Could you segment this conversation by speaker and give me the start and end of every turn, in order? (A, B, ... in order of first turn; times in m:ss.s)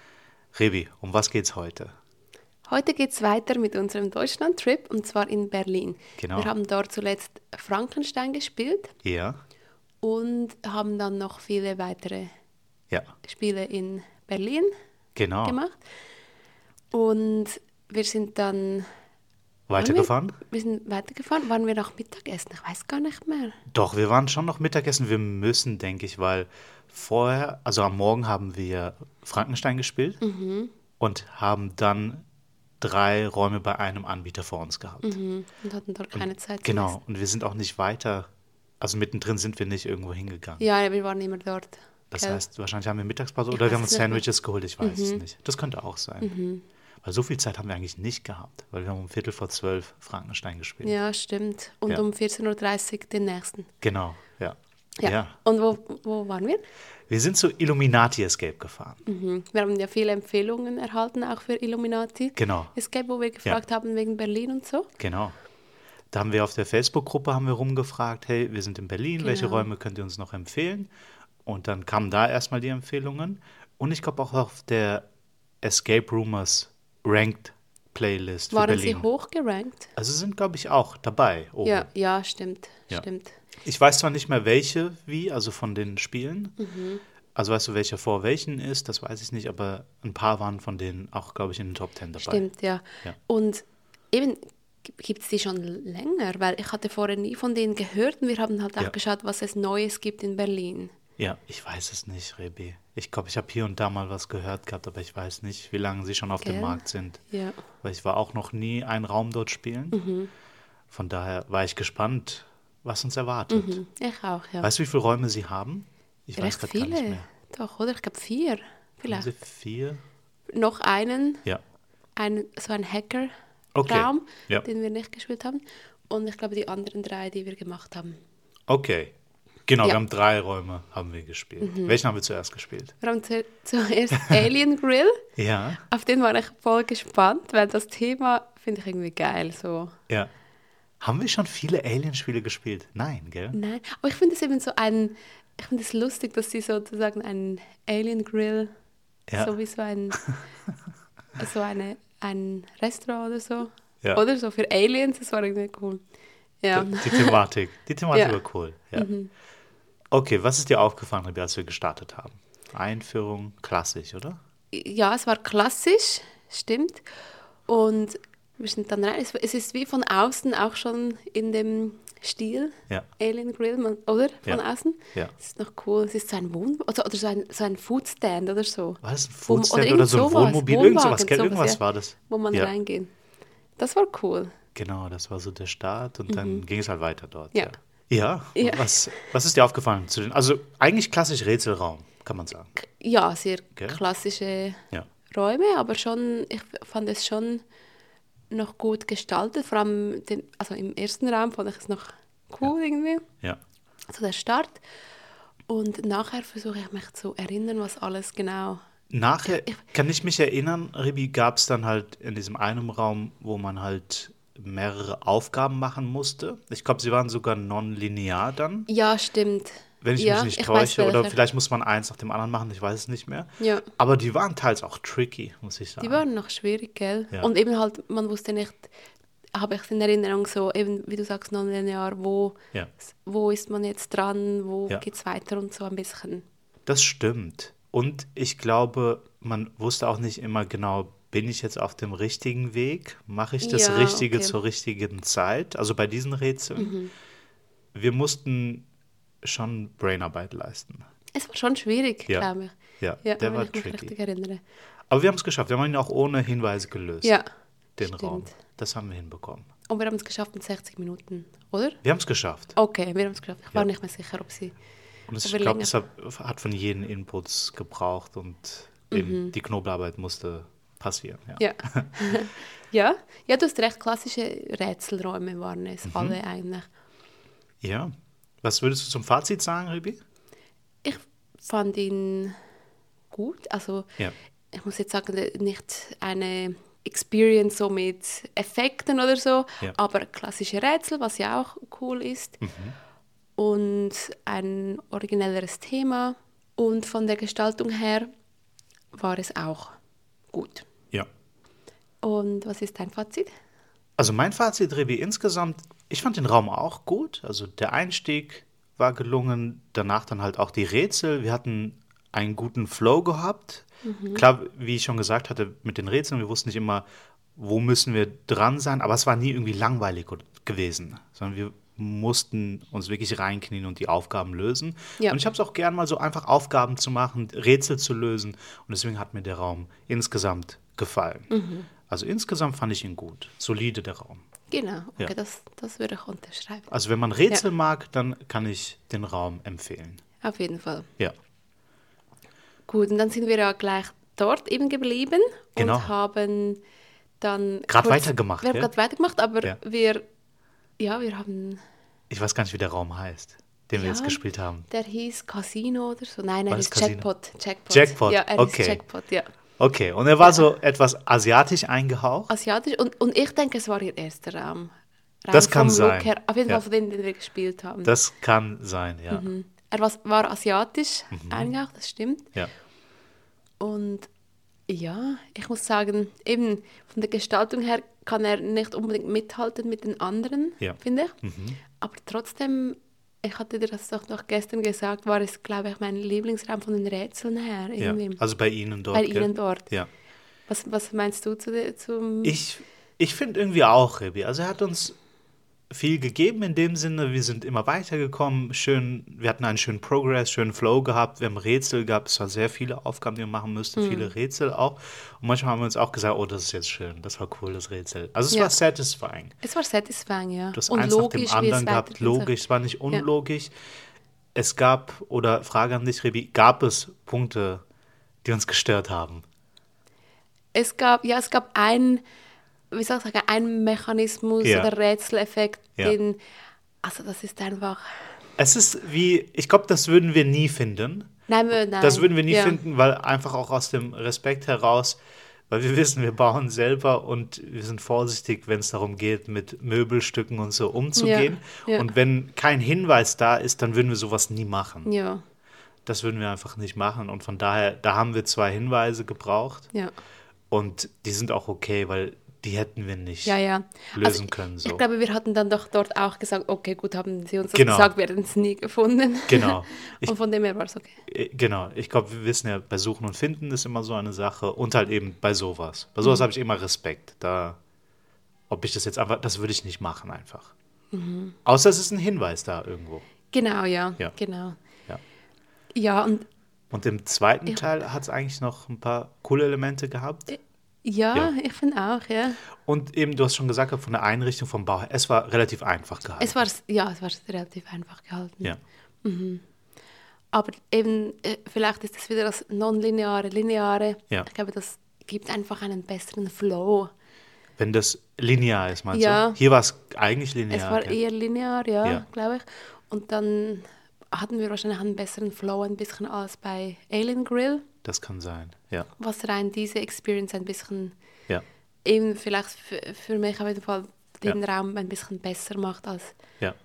0:00.5-0:01.9 A
0:02.7-0:08.9 B
0:06.2-0:06.5 A
0:09.0-0:09.4 A
0:10.0-0:12.3 B
0:13.2-0:14.7 B
0:15.2-0:15.6 A
0:15.4-0:15.8 B
0:16.9-0:18.9 B
0:19.7-0:20.4 A
0:19.8-0:23.6 B
0:23.7-0:30.2 A
0:30.2-0:30.7 B
0:31.0-0:32.2 A
0:32.8-0:35.2 A
0:35.0-0:37.0 B
0:36.2-0:38.3 A
0:38.8-0:40.6 A
0:40.6-0:42.4 B
0:42.1-0:46.3 A
0:43.5-0:44.2 B
0:44.8-0:45.2 B
0:46.2-0:46.6 B
0:47.0-0:50.9 A
0:50.8-0:53.7 B
0:53.8-0:55.3 A
0:55.0-0:56.6 B
0:57.1-0:59.0 A
0:59.0-1:04.9 B
1:02.4-1:02.7 A
1:05.0-1:05.4 A
1:06.1-1:10.9 A
1:09.2-1:09.7 B
1:11.5-1:15.1 A
1:15.6-1:19.1 A
1:18.5-1:19.9 B
1:20.0-1:21.9 A
1:21.6-1:23.4 B
1:23.6-1:26.6 A
1:26.6-1:27.0 B
1:27.4-1:32.4 A
1:32.2-1:34.4 B
1:35.0-1:40.9 B
1:41.2-1:47.2 A
1:46.4-1:47.6 B
1:47.8-1:50.0 A
1:49.9-1:50.3 B
1:50.9-1:53.8 A
1:53.5-1:54.7 B
1:54.6-1:57.2 A
1:56.4-1:59.3 B
1:59.1-2:00.0 A
2:00.5-2:01.4 B
2:02.2-2:03.3 B
2:03.7-2:04.7 A
2:03.8-2:08.2 B
2:08.7-2:09.1 A
2:09.7-2:12.9 A
2:11.6-2:12.0 B
2:13.0-2:15.2 B
2:15.4-2:15.8 A
2:15.9-2:20.0 B
2:21.0-2:23.6 A
2:23.5-2:28.7 B
2:29.3-2:29.5 A
2:29.4-2:30.2 B
2:31.4-2:36.0 B
2:36.6-2:37.4 B
2:36.7-2:39.1 A
2:38.1-2:38.4 B
2:39.0-2:39.3 B
2:40.1-2:44.4 A
2:44.7-2:47.0 B
2:47.7-3:03.1 B
2:59.0-3:02.7 A
3:03.8-3:04.5 B
3:04.8-3:12.7 A
3:06.3-3:06.6 B
3:08.6-3:08.9 B
3:12.8-3:17.6 B
3:18.5-3:23.2 B
3:24.1-3:24.8 B
3:25.7-3:28.8 B
3:29.1-3:38.9 A
3:29.5-3:29.8 B
3:38.9-3:41.4 B
3:40.0-3:46.2 A
3:43.6-3:43.9 B
3:46.0-3:48.9 B
3:49.6-3:56.4 B
3:56.9-4:07.0 A
4:03.6-4:04.6 B
4:06.8-4:07.1 B
4:07.9-4:08.9 A
4:09.4-4:11.0 A
4:11.3-4:14.6 B
4:13.0-4:14.1 A
4:15.1-4:17.4 A
4:18.0-4:19.7 A
4:18.0-4:18.5 B
4:19.9-4:22.0 B
4:22.0-4:22.8 A
4:22.8-4:24.8 B
4:25.3-4:32.1 A
4:25.4-4:25.9 B
4:29.1-4:29.6 B
4:31.6-4:36.9 B
4:36.0-4:36.4 A
4:37.8-4:40.2 A
4:41.0-4:42.6 B
4:43.3-4:44.1 B
4:44.7-4:52.6 B
4:52.6-4:53.0 A
4:53.6-4:58.3 B
4:59.1-5:00.0 B
5:00.5-5:00.8 B
5:02.2-5:03.5 B
5:04.2-5:17.0 A
5:14.0-5:14.4 B
5:17.6-5:31.5 A
5:31.5-5:31.9 B
5:32.1-5:34.4 A
5:34.7-5:36.9 B
5:36.9-5:40.2 A
5:40.4-5:41.1 B
5:42.9-5:46.8 B
5:45.8-5:46.1 A
5:47.4-5:50.2 B
5:47.9-5:48.9 A
5:51.0-5:51.8 B
5:52.3-5:54.8 A
5:54.0-5:59.5 B
5:56.7-5:57.3 A
5:57.9-5:59.0 A
5:59.8-6:02.5 A
6:02.5-6:04.9 B
6:05.4-6:08.1 B
6:05.5-6:06.8 A
6:08.0-6:09.5 A
6:09.3-6:12.5 B
6:11.3-6:11.7 A
6:13.8-6:14.3 B
6:14.9-6:21.4 B
6:20.8-6:21.8 A
6:22.0-6:28.4 B
6:28.0-6:30.1 A
6:29.1-6:29.9 B
6:30.7-6:32.6 B
6:32.4-6:35.2 A
6:35.9-6:49.5 A
6:44.0-6:44.3 B
6:49.6-6:52.5 B
6:50.7-6:53.7 A
6:54.6-6:57.8 A
6:58.4-6:59.4 A
7:00.7-7:02.2 B
7:02.9-7:06.4 B
7:04.6-7:04.9 A
7:07.0-7:08.0 B
7:08.6-7:11.3 A
7:11.5-7:12.8 B
7:12.0-7:15.2 A
7:15.7-7:25.1 A
7:21.2-7:22.1 B
7:25.0-7:25.4 B
7:26.1-7:29.9 A
7:30.7-7:33.6 A
7:33.4-7:41.2 B
7:34.2-7:35.0 A
7:37.7-7:38.1 A
7:39.5-7:40.3 A
7:41.3-7:47.8 A
7:48.7-7:50.7 A
7:51.1-7:51.6 B
7:51.6-7:53.3 A
7:53.5-7:54.8 B
7:56.0-7:56.5 B
7:56.9-8:00.5 A
8:00.5-8:02.6 B
8:02.8-8:06.6 A
8:06.4-8:09.6 B
8:10.5-8:17.1 B
8:17.8-8:21.2 A
8:19.1-8:19.6 B
8:20.7-8:27.9 B
8:28.0-8:29.1 A
8:29.2-8:31.1 B
8:32.0-8:36.4 B